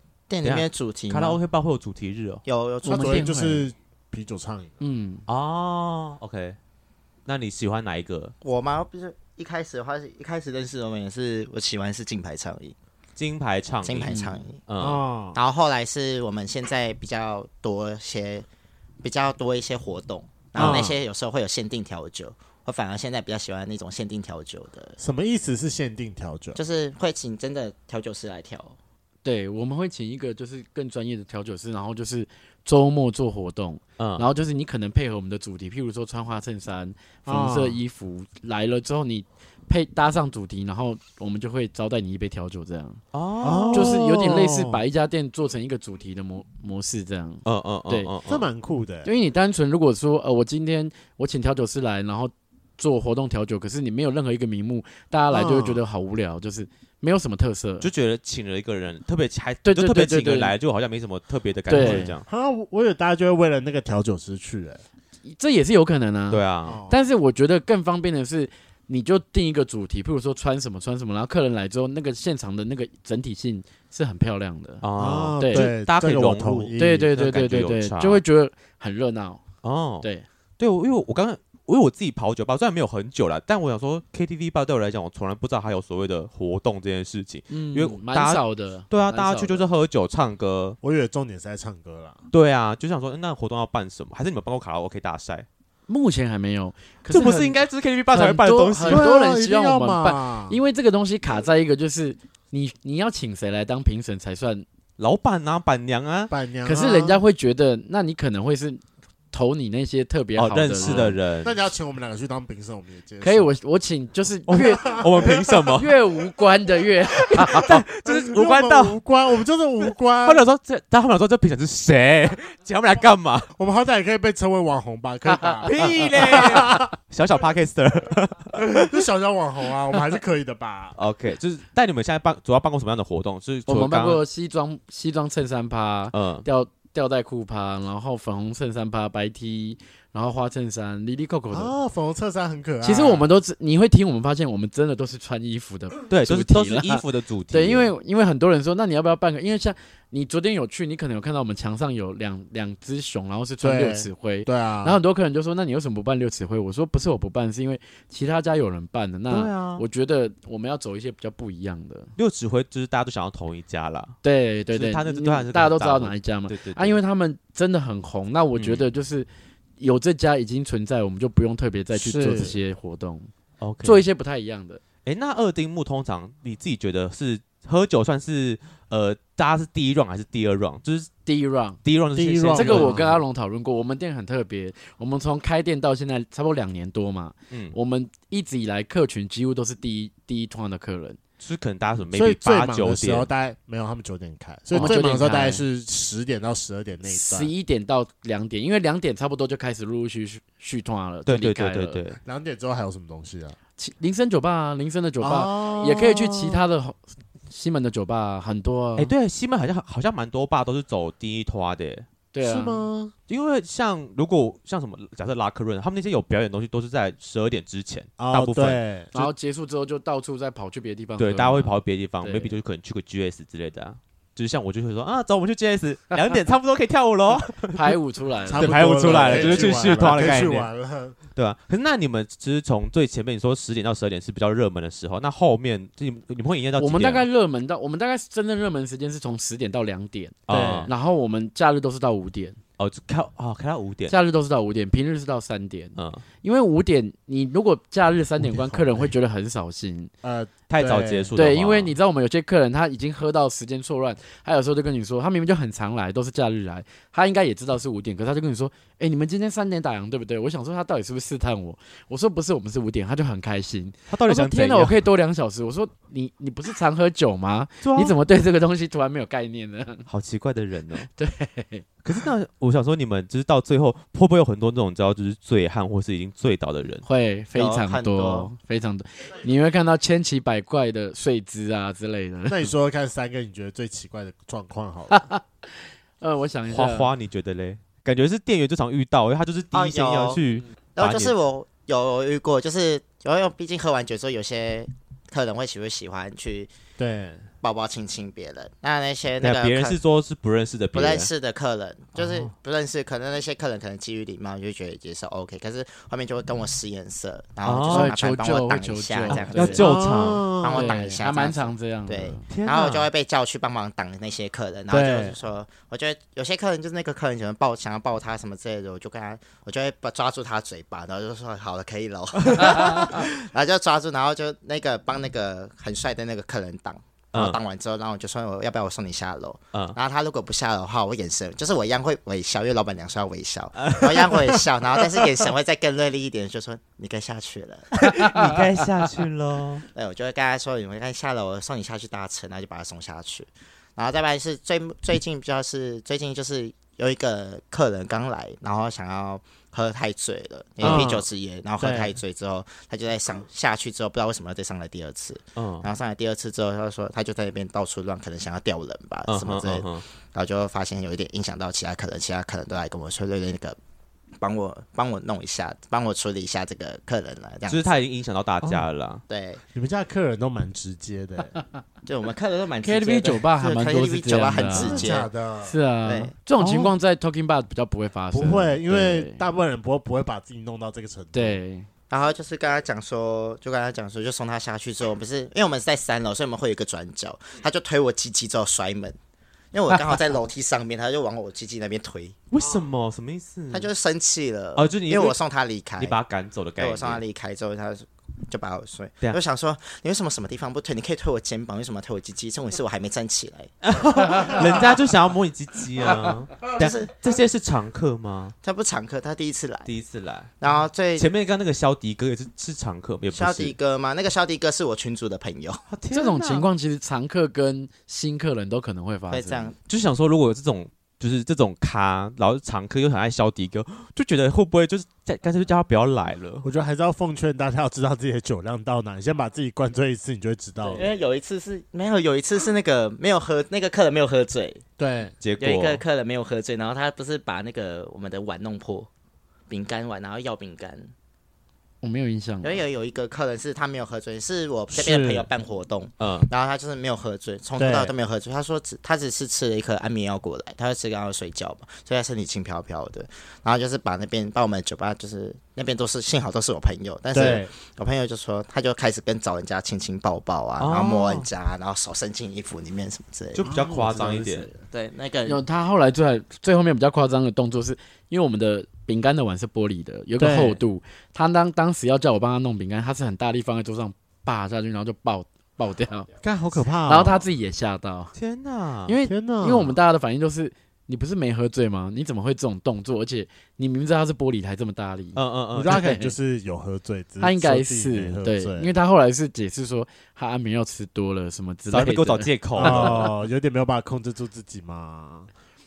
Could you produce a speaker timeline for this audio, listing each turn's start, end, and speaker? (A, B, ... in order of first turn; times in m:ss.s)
0:00.3-0:01.4 A
0:00.4-0:02.4 B
0:02.4-0:03.3 A
0:02.8-0:03.7 C
0:02.8-0:04.8 D
0:04.8-0:05.2 C
0:05.3-0:06.6 B
0:07.2-0:08.3 B
0:08.4-0:12.7 A
0:13.2-0:15.0 B
0:13.8-0:14.6 A
0:14.8-0:15.4 D
0:15.3-0:18.4 A
0:19.0-0:25.0 A
0:20.6-0:21.0 D
0:25.0-0:26.6 D
0:26.6-0:28.8 A
0:29.2-0:43.0 C
0:34.0-0:34.2 B
0:37.2-0:37.8 D
0:43.1-0:44.0 B
0:43.4-0:44.8 D
0:43.7-0:48.1 C
0:47.4-0:48.5 B
0:48.3-0:49.1 D
0:49.0-0:57.9 C
0:55.3-0:55.8 D
0:57.8-1:02.2 B
0:59.6-1:00.5 C
1:01.7-1:02.1 C
1:01.7-1:04.8 D
1:05.2-1:14.8 C
1:06.3-1:06.8 B
1:06.6-1:07.0 D
1:14.8-1:18.2 B
1:15.0-1:17.1 D
1:15.4-1:15.7 C
1:16.8-1:19.4 C
1:19.6-1:20.0 B
1:20.6-1:30.8 B
1:27.5-1:29.7 C
1:30.8-1:32.2 D
1:32.3-1:35.5 B
1:35.9-1:44.6 C
1:37.1-1:39.1 B
1:38.8-1:40.6 D
1:45.0-1:46.3 B
1:46.3-1:47.2 D
1:46.6-1:51.1 C
1:50.4-1:51.6 B
1:50.8-1:53.5 D
1:53.2-1:55.0 C
1:54.5-1:56.0 B
1:54.9-1:55.3 D
1:55.7-1:57.7 C
1:57.3-1:59.0 B
1:57.6-2:00.4 D
1:59.8-2:03.5 B
2:03.6-2:06.9 D
2:05.3-2:05.8 C
2:05.6-2:09.0 B
2:08.8-2:11.0 D
2:11.0-2:14.2 B
2:13.7-2:21.7 C
2:16.1-2:16.4 B
2:21.5-2:23.3 D
2:22.8-2:42.1 C
2:26.1-2:27.9 B
2:33.6-2:35.0 D
2:39.3-2:39.8 B
2:42.2-2:44.2 B
2:44.2-2:49.3 C
2:44.7-2:47.0 B
2:48.5-2:48.8 B
2:49.8-2:53.3 C
2:51.9-2:52.6 D
2:53.6-2:54.0 B
2:53.8-2:54.8 C
2:55.0-3:01.1 B
3:01.2-3:01.8 C
3:01.8-3:03.2 B
3:02.1-3:03.2 D
3:02.5-3:11.2 C
3:07.5-3:07.8 B
3:11.4-3:13.3 B
3:12.1-3:17.5 D
3:14.7-3:15.6 C
3:17.0-3:22.0 C
3:21.2-3:22.2 B
3:22.2-3:23.6 D
3:23.8-3:29.1 C
3:25.2-3:26.6 D
3:29.0-3:32.1 B
3:32.3-3:32.9 C
3:32.4-3:33.1 D
3:33.3-3:39.3 B
3:38.2-3:39.1 D
3:39.1-3:42.6 C
3:41.2-3:48.0 B
3:47.7-3:50.2 C
3:48.4-3:51.2 D
3:48.5-3:50.7 B
3:51.4-3:57.3 B
3:56.8-4:02.6 C
4:00.5-4:00.9 B
4:00.5-4:00.9 D
4:02.8-4:04.1 B
4:04.1-4:10.1 C
4:06.0-4:06.2 B
4:08.4-4:09.1 D
4:10.2-4:11.3 D
4:10.7-4:11.9 B
4:11.4-4:30.0 C
4:24.1-4:25.0 B
4:27.8-4:28.1 B
4:30.1-4:31.1 B
4:31.2-4:31.8 C
4:32.0-4:37.0 B
4:37.0-4:42.7 C
4:37.5-4:38.5 A
4:42.5-4:45.2 D
4:45.1-4:47.1 C
4:46.7-4:51.3 B
4:49.7-4:50.4 A
4:51.0-4:56.7 A
4:57.0-4:57.5 D
4:57.6-5:00.0 A
4:59.4-5:01.3 B
5:00.9-5:38.0 A
5:07.6-5:08.1 B
5:07.9-5:09.9 C
5:09.3-5:10.5 B
5:09.8-5:11.0 D
5:10.7-5:12.4 C
5:12.5-5:13.1 B
5:14.9-5:15.4 D
5:22.6-5:23.3 B
5:27.3-5:27.6 B
5:33.8-5:34.6 B
5:38.0-5:39.8 B
5:39.9-6:03.8 A
5:50.8-5:51.1 B
5:50.8-5:51.2 D
5:51.8-5:52.2 D
5:55.6-5:55.9 B
5:59.3-6:00.0 B
6:04.4-6:08.0 A
6:07.7-6:09.2 B
6:09.3-6:09.6 A
6:09.7-6:11.5 D
6:12.0-6:15.3 A
6:12.8-6:15.0 C
6:14.7-6:15.7 D
6:15.6-6:19.4 C
6:16.0-6:16.3 A
6:16.6-6:16.9 B
6:18.3-6:21.6 D
6:21.3-6:21.9 C
6:22.1-6:29.2 A
6:29.7-6:32.4 A
6:32.5-6:33.9 B
6:33.7-6:36.2 A
6:34.8-6:35.4 B
6:36.0-6:37.2 B
6:36.8-6:43.7 A
6:43.8-6:48.5 B
6:46.7-6:47.1 A
6:48.6-6:49.9 A
6:49.8-6:50.5 B
6:50.6-6:51.3 A
6:51.2-6:53.7 B
6:53.3-6:55.8 A
6:55.9-6:56.7 B
6:56.1-6:59.7 C
6:59.3-6:59.8 A
6:59.9-7:06.6 B
7:06.6-7:11.1 D
7:10.8-7:14.8 A
7:15.0-7:15.3 D
7:15.4-7:16.0 B
7:15.6-7:19.1 A
7:19.7-7:21.1 A
7:22.0-7:22.8 C
7:22.6-7:43.6 A
7:24.9-7:25.5 D
7:26.2-7:26.5 B
7:27.8-7:28.1 D
7:37.3-7:37.7 D
7:40.8-7:41.5 B
7:43.5-7:44.7 B
7:43.6-7:44.2 D
7:43.8-7:44.7 C
7:44.8-7:45.6 A
7:45.4-7:56.3 C
7:50.4-7:50.8 D
7:56.4-7:57.4 D
7:57.0-7:58.3 C
7:58.3-7:59.1 B
7:59.1-8:06.3 C
7:59.2-8:00.0 D
8:05.3-8:06.0 B
8:05.7-8:08.9 D
8:07.4-8:13.3 C
8:11.9-8:13.2 B
8:12.8-8:15.5 D